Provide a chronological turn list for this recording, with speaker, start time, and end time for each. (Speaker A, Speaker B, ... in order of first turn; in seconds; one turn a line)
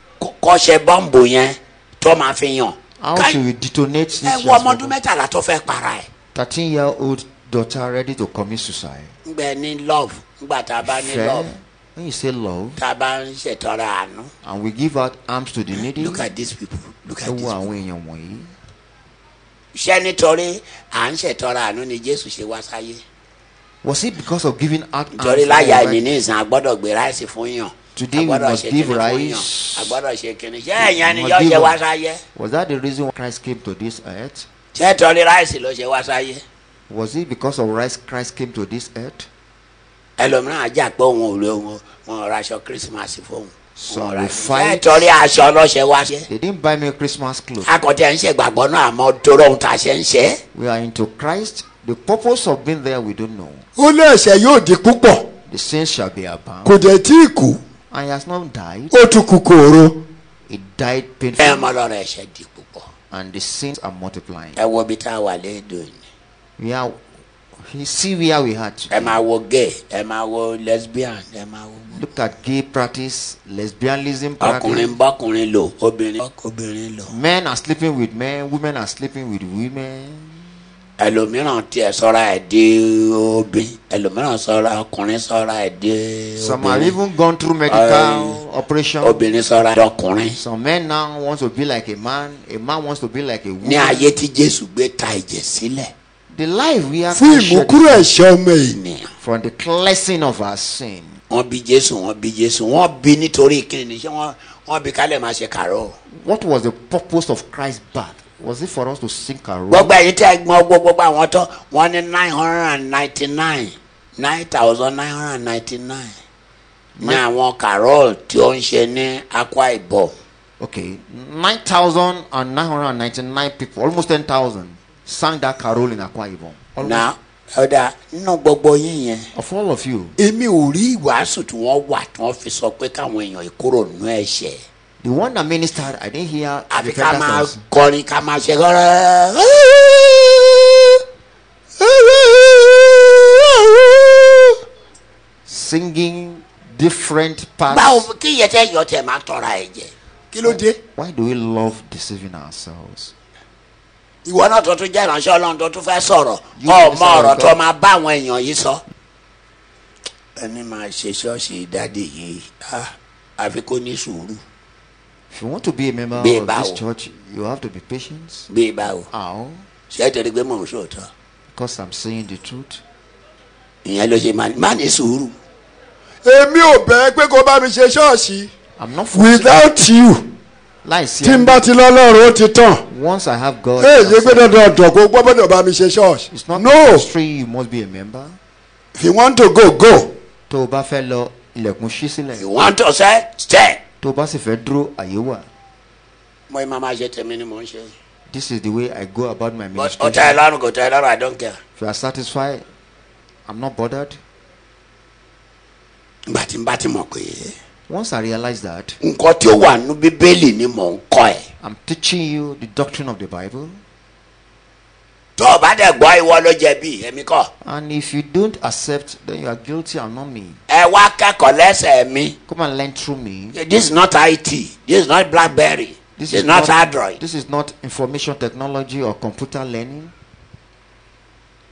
Speaker A: 0.2-3.4
Speaker B: 3.0-5.0
Speaker A: 4.2-6.1
Speaker B: 6.3-9.2
Speaker A: 9.3-11.5
Speaker B: 10.8-12.8
Speaker A: 12.8-14.3
Speaker B: 14.4-16.3
Speaker A: 15.7-17.7
Speaker B: 17.2-18.5
Speaker A: 19.7-23.0
Speaker B: 23.8-26.1
Speaker A: 25.2-32.2
Speaker B: 27.9-30.0
Speaker B: 30.8-31.8
Speaker B: 32.4-34.5
Speaker A: 34.8-36.4
Speaker B: 36.9-39.3
Speaker A: 40.2-46.3
Speaker B: 43.8-45.1
Speaker B: 46.2-47.7
Speaker A: 47.6-50.4
Speaker B: 50.5-53.6
Speaker C: 53.8-55.3
Speaker B: 55.5-56.8
Speaker C: 56.6-57.6
Speaker B: 57.9-59.0
Speaker C: 58.9-60.0
Speaker B: 60.5-61.7
Speaker A: 61.4-62.9
Speaker B: 63.1-64.6
Speaker A: 64.6-66.0
Speaker B: 66.6-67.0
Speaker B: 67.6-69.2
Speaker A: 68.9-72.0
Speaker B: 71.9-75.0
Speaker A: 74.4-77.1
Speaker B: 77.1-80.5
Speaker A: 81.0-87.0
Speaker B: 86.4-89.3
Speaker A: 87.7-88.4
Speaker A: 89.0-90.4
Speaker B: 90.4-94.2
Speaker A: 93.6-95.9
Speaker B: 96.3-98.1
Speaker C: 97.1-98.8
Speaker A: 98.7-99.1
Speaker B: 99.2-101.2
Speaker A: 101.3-106.0
Speaker B: 106.1-110.0
Speaker A: 109.7-116.1
Speaker B: 117.0-117.2
Speaker A: 117.0-120.1
Speaker B: 120.6-127.1
Speaker A: 126.8-129.3
Speaker B: 129.3-130.2
Speaker A: 130.2-134.6
Speaker B: 135.0-137.6
Speaker A: 136.7-141.0
Speaker A: 141.8-142.2
Speaker C: 142.2-142.7
Speaker C: 143.8-144.2
Speaker B: 145.5-148.1
Speaker A: 147.7-150.8
Speaker B: 150.4-153.1
Speaker A: 154.2-158.8
Speaker B: 156.6-157.6
Speaker A: 160.4-164.4
Speaker B: 165.3-168.5
Speaker A: 166.2-166.8
Speaker A: 168.5-169.1
Speaker B: 169.1-169.7
Speaker A: 169.9-171.1
Speaker B: 171.5-172.8
Speaker A: 173.8-175.3
Speaker C: 176.2-178.5
Speaker B: 178.8-179.6
Speaker C: 179.1-180.2
Speaker B: 180.8-181.7
Speaker C: 181.2-182.8
Speaker B: 182.9-184.7
Speaker C: 183.8-187.1
Speaker B: 186.3-188.4
Speaker C: 189.0-190.1
Speaker B: 190.5-192.7
Speaker A: 192.4-193.8
Speaker B: 194.0-195.5
Speaker A: 196.5-197.9
Speaker B: 198.3-200.4
Speaker A: 199.8-201.6
Speaker B: 201.8-202.7
Speaker B: 203.5-204.2
Speaker A: 206.3-207.5
Speaker B: 207.9-209.0
Speaker A: 209.0-211.4
Speaker B: 211.6-213.8
Speaker A: 215.4-217.5
Speaker B: 217.6-220.6
Speaker A: 220.7-222.3
Speaker B: 222.5-223.6
Speaker A: 223.5-227.2
Speaker B: 226.2-230.1